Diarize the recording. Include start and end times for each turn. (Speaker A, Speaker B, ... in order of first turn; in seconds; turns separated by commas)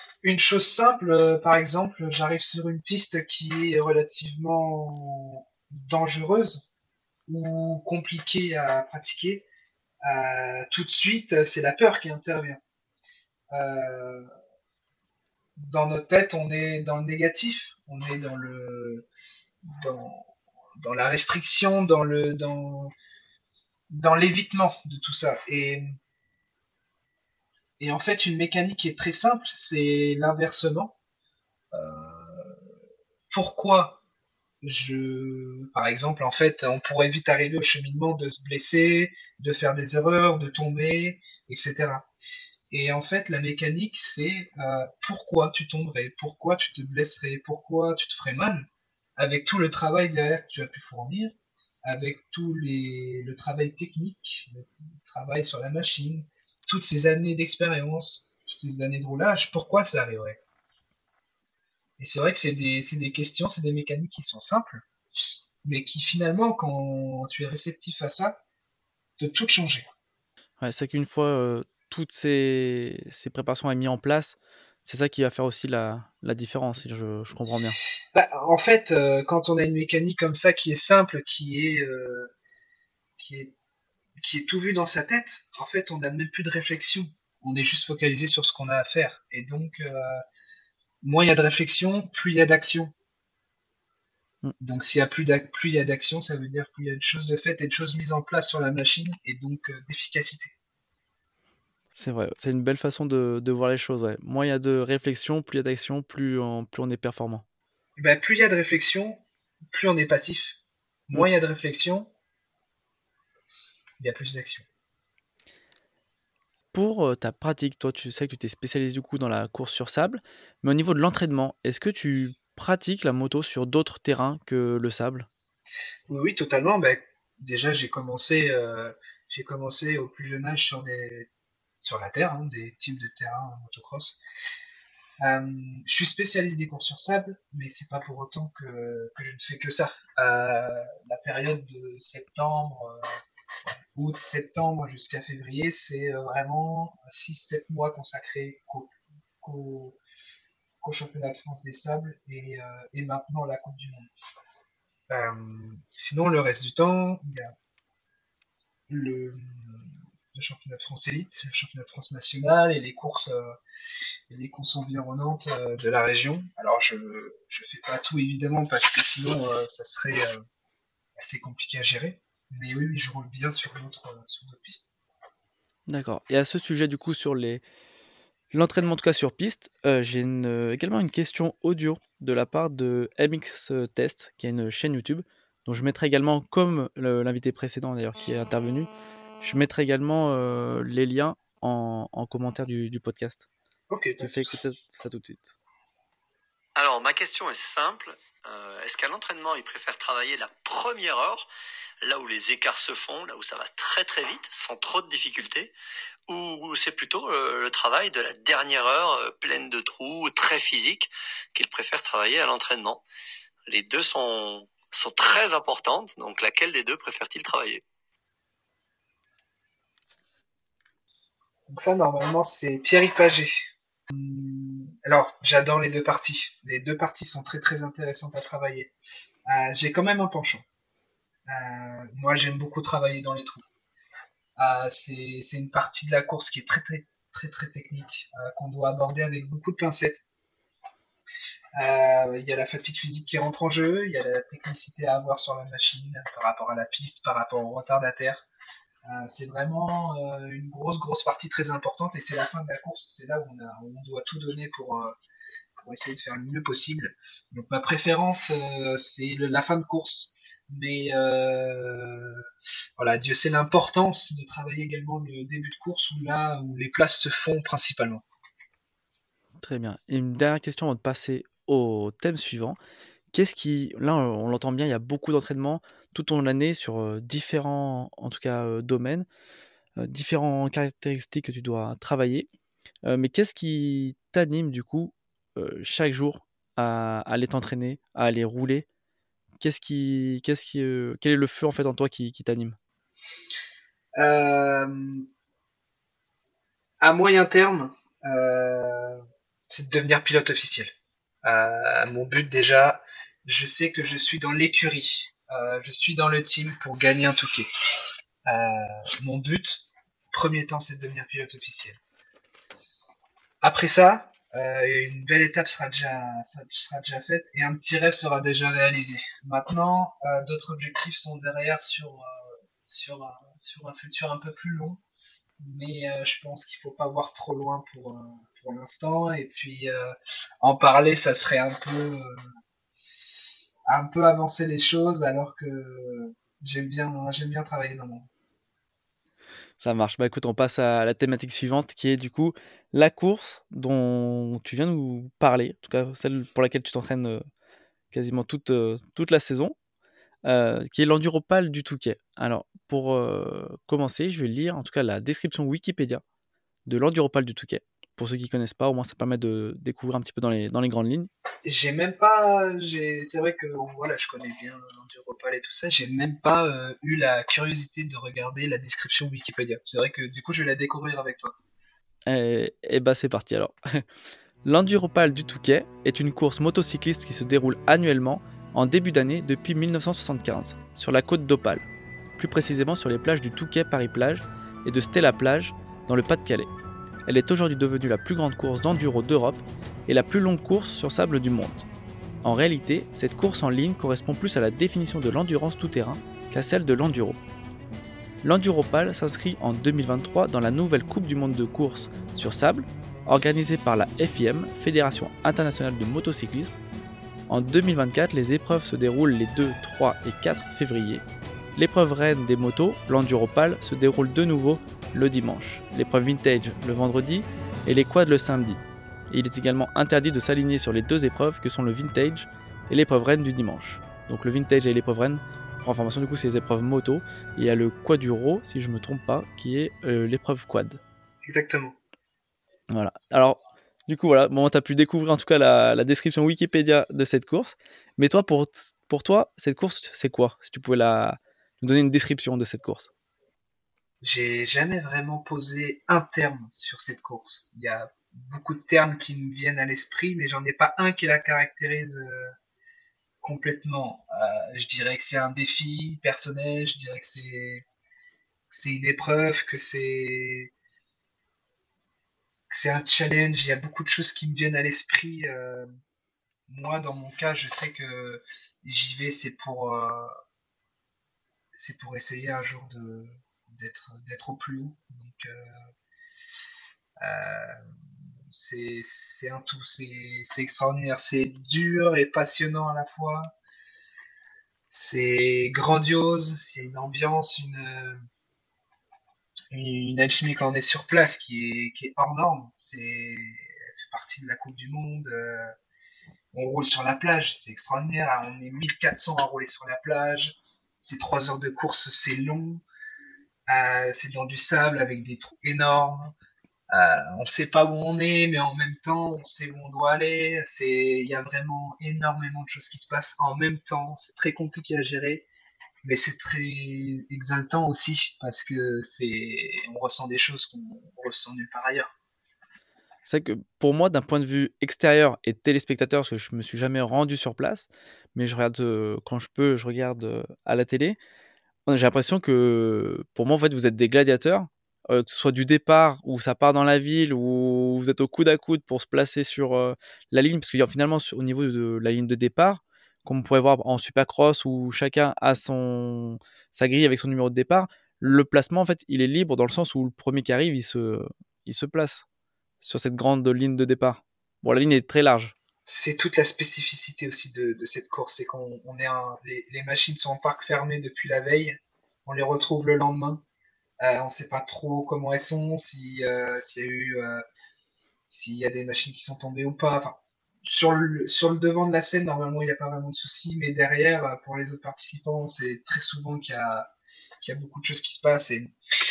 Speaker A: 0.2-6.6, Speaker A: 7.3-9.4, Speaker A: 10.0-12.6, Speaker A: 13.5-14.3, Speaker A: 15.6-19.1, Speaker A: 19.7-22.9, Speaker A: 23.9-26.0, Speaker A: 27.8-30.9, Speaker A: 31.7-32.6, Speaker A: 33.3-34.0, Speaker A: 34.6-42.1, Speaker A: 42.7-51.4, Speaker A: 51.9-60.4, Speaker A: 62.0-64.8, Speaker A: 65.6-68.4, Speaker A: 69.2-69.9, Speaker B: 70.6-77.8, Speaker A: 78.1-82.3, Speaker A: 83.2-83.5, Speaker A: 84.2-90.2, Speaker A: 91.0-92.9, Speaker A: 94.6-100.5, Speaker B: 102.0-107.4, Speaker A: 108.0-109.2, Speaker A: 109.7-110.6, Speaker A: 111.1-112.1, Speaker A: 114.0-114.7, Speaker B: 116.7-125.3, Speaker A: 126.1-131.3, Speaker A: 131.8-134.2, Speaker A: 135.2-143.1, Speaker A: 143.9-150.0, Speaker A: 150.8-154.1, Speaker A: 155.1-157.5, Speaker A: 158.9-163.6, Speaker A: 164.3-170.4, Speaker A: 171.2-174.9, Speaker B: 175.9-177.6, Speaker B: 178.5-188.9, Speaker B: 189.4-193.4, Speaker A: 193.9-194.6, Speaker B: 194.2-195.5, Speaker C: 196.8-201.5, Speaker C: 202.0-205.7, Speaker C: 206.3-213.0, Speaker C: 213.7-217.8, Speaker A: 221.7-228.9, Speaker A: 229.5-230.6, Speaker A: 231.5-233.7, Speaker A: 234.6-240.2, Speaker A: 241.8-248.5, Speaker A: 249.1-255.2, Speaker A: 255.8-262.4, Speaker A: 263.0-268.2, Speaker B: 269.6-272.8, Speaker B: 273.3-279.3, Speaker B: 280.0-282.5, Speaker B: 283.1-288.9, Speaker B: 289.6-292.8, Speaker A: 294.2-295.3, Speaker A: 297.0-300.9, Speaker A: 301.4-307.7, Speaker A: 308.5-312.0, Speaker A: 313.6-325.0, Speaker A: 325.6-332.4, Speaker A: 333.9-338.3, Speaker B: 339.8-347.4, Speaker B: 348.1-349.8, Speaker B: 350.4-356.2, Speaker B: 356.9-361.3, Speaker A: 361.6-371.6, Speaker B: 372.3-374.1, Speaker B: 374.6-381.8, Speaker B: 382.4-386.7, Speaker B: 387.3-391.9, Speaker B: 392.4-397.4, Speaker B: 398.4-406.7, Speaker B: 407.5-411.2, Speaker B: 411.8-431.0, Speaker A: 431.4-432.0, Speaker B: 432.9-443.1, Speaker A: 444.2-452.5, Speaker A: 453.4-457.9, Speaker A: 458.7-460.7, Speaker A: 462.7-465.9, Speaker A: 466.7-470.3, Speaker A: 471.8-475.7, Speaker A: 477.2-477.8, Speaker A: 478.5-483.5, Speaker A: 484.9-488.2, Speaker A: 489.7-495.8, Speaker A: 496.5-502.8, Speaker A: 503.7-506.3, Speaker A: 506.9-515.5, Speaker A: 516.0-522.1, Speaker B: 523.3-531.2, Speaker B: 531.9-552.2, Speaker B: 552.8-555.5, Speaker A: 555.9-563.4, Speaker A: 564.0-567.4, Speaker A: 568.3-576.9, Speaker A: 577.4-578.7